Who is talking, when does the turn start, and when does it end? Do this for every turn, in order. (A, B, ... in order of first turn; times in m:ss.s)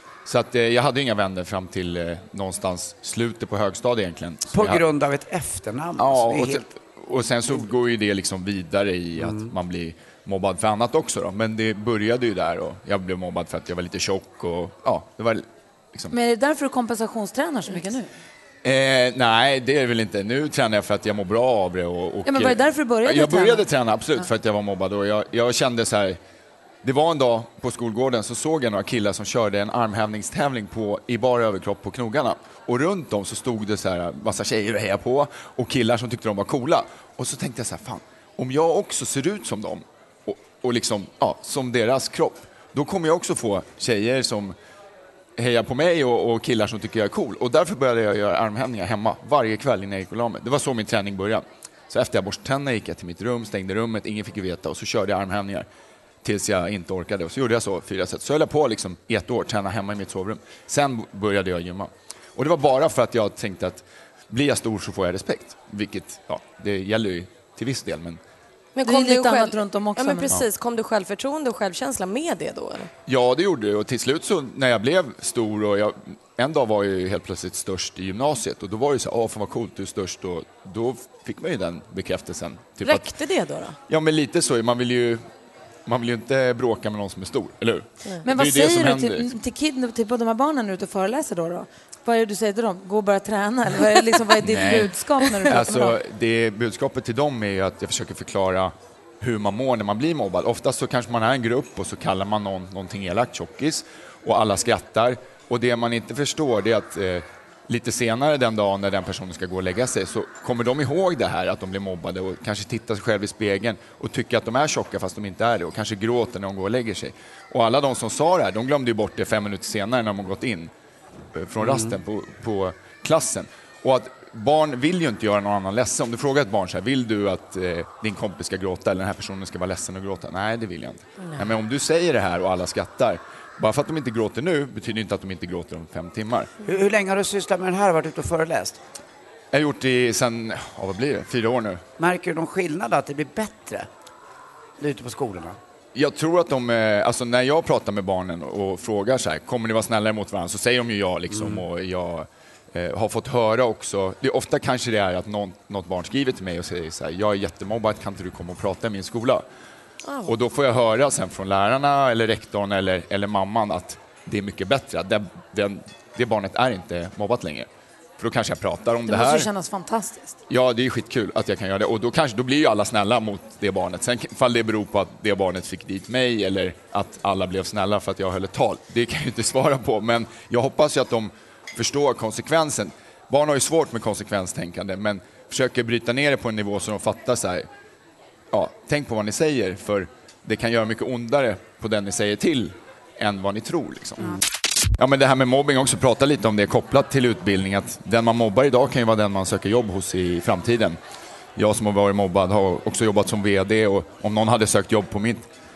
0:00.2-0:04.8 A
0:04.5-0:06.6 B
0:06.0-0:16.1 A
0:09.2-0:09.5 B
0:16.1-0:18.1 C
0:18.6-0:26.2 A
0:22.2-0:23.7 C
0:26.8-0:44.5 A
0:45.4-0:55.7 A
0:56.2-1:08.2 A
1:08.8-1:12.9 D
1:08.8-1:10.3 C
1:13.1-1:23.1 A
1:22.8-1:23.8 D
1:23.9-1:25.2 A
1:25.8-1:29.3 A
1:28.2-1:36.0 C
1:34.4-2:00.7 A
2:01.3-2:16.5 A
2:01.6-2:02.0 B
2:11.2-2:11.5 D
2:16.6-2:18.8 B
2:19.5-2:21.8 A
2:22.0-2:23.9 B
2:24.8-2:25.6 B
2:25.9-2:39.4 A
2:31.3-2:31.6 B
2:40.0-2:40.3 D
2:40.2-2:47.7 A
2:48.2-2:49.5 A
2:49.1-2:50.4 C
2:50.5-3:07.7 A
3:08.5-3:14.4 A
3:15.0-3:21.0 A
3:21.6-3:25.5 A